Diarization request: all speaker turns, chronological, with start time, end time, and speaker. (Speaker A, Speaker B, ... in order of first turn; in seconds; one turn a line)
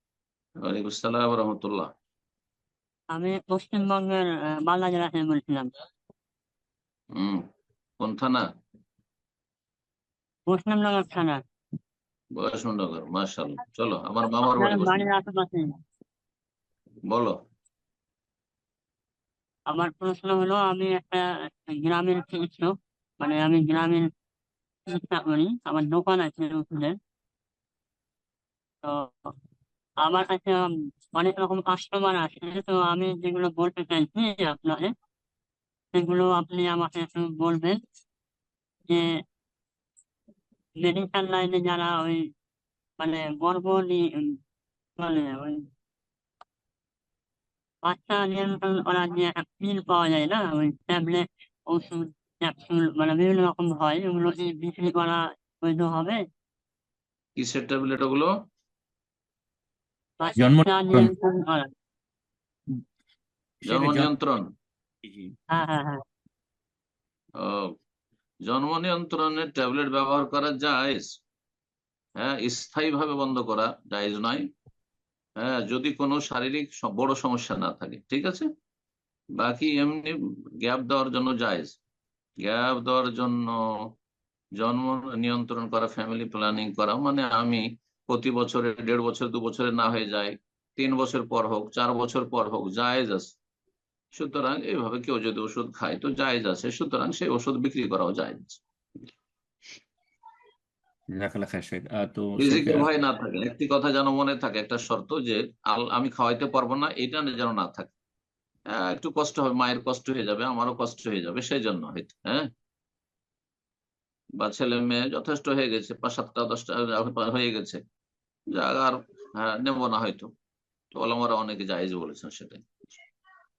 Speaker A: 0.7-1.9
Speaker B: 3.1-5.7
Speaker A: 8.0-8.4
Speaker B: 10.5-11.4
Speaker A: 12.4-15.1
Speaker B: 14.4-15.7
Speaker A: 17.1-17.4
Speaker B: 19.7-24.1
Speaker B: 24.9-27.0
Speaker B: 30.0-34.9
Speaker B: 35.9-37.8
Speaker B: 40.8-42.2
Speaker B: 43.0-44.3
Speaker B: 45.0-45.6
Speaker B: 47.9-56.2
Speaker A: 57.4-58.3
Speaker B: 60.2-61.7
Speaker C: 60.4-61.1
Speaker C: 63.6-64.1
Speaker A: 63.6-64.5
Speaker C: 65.0-65.3
Speaker B: 65.5-66.0
Speaker A: 67.4-67.7
Speaker A: 68.5-71.1
Speaker A: 72.2-74.5
Speaker A: 75.4-78.5
Speaker A: 79.4-81.7
Speaker A: 82.4-83.4
Speaker A: 84.6-93.3
Speaker A: 94.2-98.6
Speaker C: 101.2-102.9
Speaker A: 102.4-107.9
Speaker A: 108.7-112.5
Speaker A: 114.4-117.8
Speaker A: 118.6-120.3
Speaker A: 120.9-122.7